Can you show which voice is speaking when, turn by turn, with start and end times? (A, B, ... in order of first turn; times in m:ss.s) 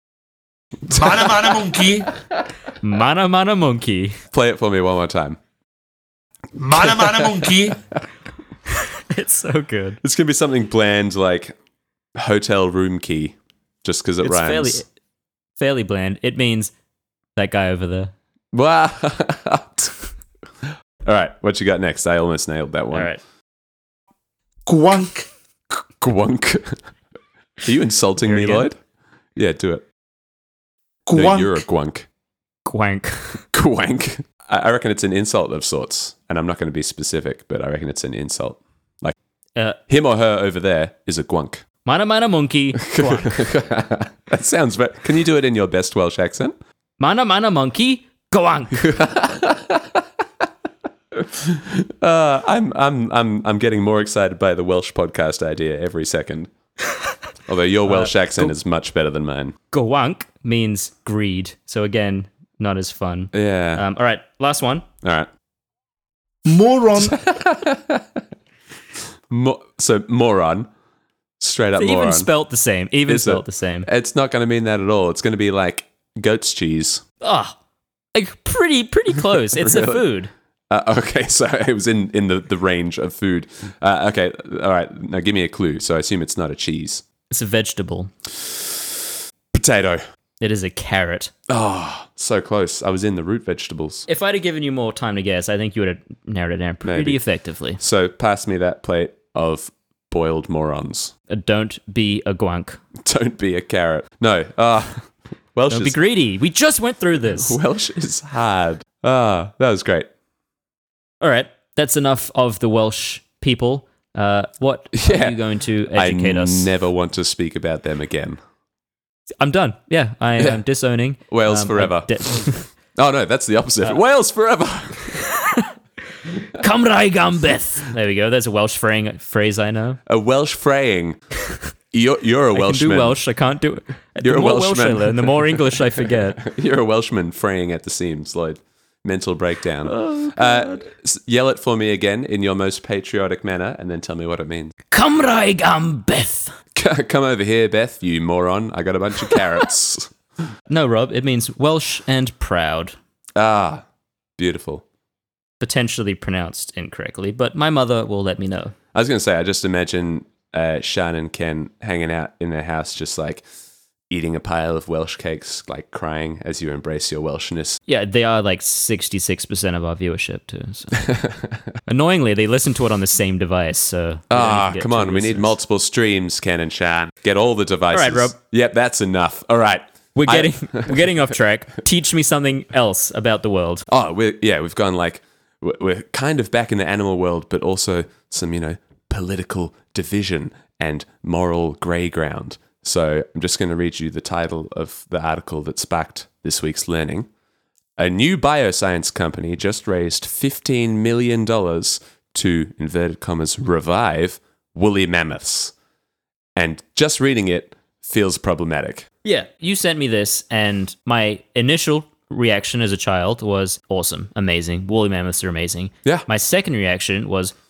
0:00.9-0:02.1 A
0:00.9-0:02.4 B
0:02.8-0:04.2 C
0:04.3-0:05.4 B
0:06.6-0:07.8 A
0:06.8-0:07.7 B
0:08.7-0:10.0 C
0:10.0-0:11.6 B
0:12.2-0:14.8 B
0:14.2-0:14.9 C
0:15.6-0:16.7 C
0:17.4-0:18.1 C
0:18.5-0:20.0 B
0:20.6-0:23.1 B
0:22.9-0:23.2 C
0:24.7-0:25.3 A
0:25.7-0:26.8 B
0:27.6-0:28.8 B
0:28.2-0:28.6 C
0:29.4-0:29.9 B
0:31.1-0:31.6 A
0:31.1-0:32.1 B
0:32.6-0:33.4 C
0:33.5-0:39.1 B
0:39.9-0:41.6 B
0:41.8-0:43.4 C
0:42.8-0:46.6 B
0:47.0-0:48.9 C
0:48.8-0:50.0 B
0:51.1-0:56.5 B
0:57.5-0:59.6 B
0:57.9-0:58.5 C
0:59.7-1:04.9 C
1:03.3-1:03.8 B
1:05.0-1:05.3 B
1:06.5-1:07.2 A
1:07.0-1:08.2 B
1:09.3-1:10.7 B
1:11.4-1:12.3 B
1:11.8-1:13.9 C
1:13.1-1:17.0 B
1:17.2-1:17.6 C
1:18.1-1:20.3 C
1:19.5-1:20.0 B
1:20.7-1:27.0 B
1:27.3-1:28.1 C
1:28.3-1:28.9 B
1:29.5-1:30.0 B
1:30.4-1:31.3 C
1:31.5-1:34.0 B
1:34.1-1:37.8 C
1:36.8-1:37.2 B
1:37.8-1:41.1 B
1:41.3-1:42.8 C
1:43.0-1:46.0 B
1:45.7-1:47.6 C
1:47.2-1:50.1 B
1:51.2-1:56.7 C
1:54.9-1:55.4 B
1:55.9-1:58.4 B
1:59.4-2:02.7 C
2:01.3-2:05.2 B
2:05.1-2:05.7 C
2:06.4-2:10.0 C
2:10.1-2:11.2 B
2:11.9-2:13.2 B
2:12.5-2:16.4 C
2:14.2-2:24.7 B
2:19.9-2:20.8 C
2:24.9-2:26.6 C
2:26.8-2:30.1 B
2:30.7-2:33.0 C
2:33.4-2:33.8 B
2:34.4-2:34.8 B
2:35.6-2:38.8 C
2:38.9-2:43.4 B
2:44.1-2:47.8 B
2:47.9-2:51.2 C
2:51.0-2:51.6 B
2:51.9-2:55.6 C
2:54.3-3:01.1 B
2:57.9-2:58.4 C
3:00.1-3:03.9 C
3:03.9-3:17.3 B
3:18.0-3:25.7 B
3:26.6-3:29.1 B
3:29.2-3:37.5 C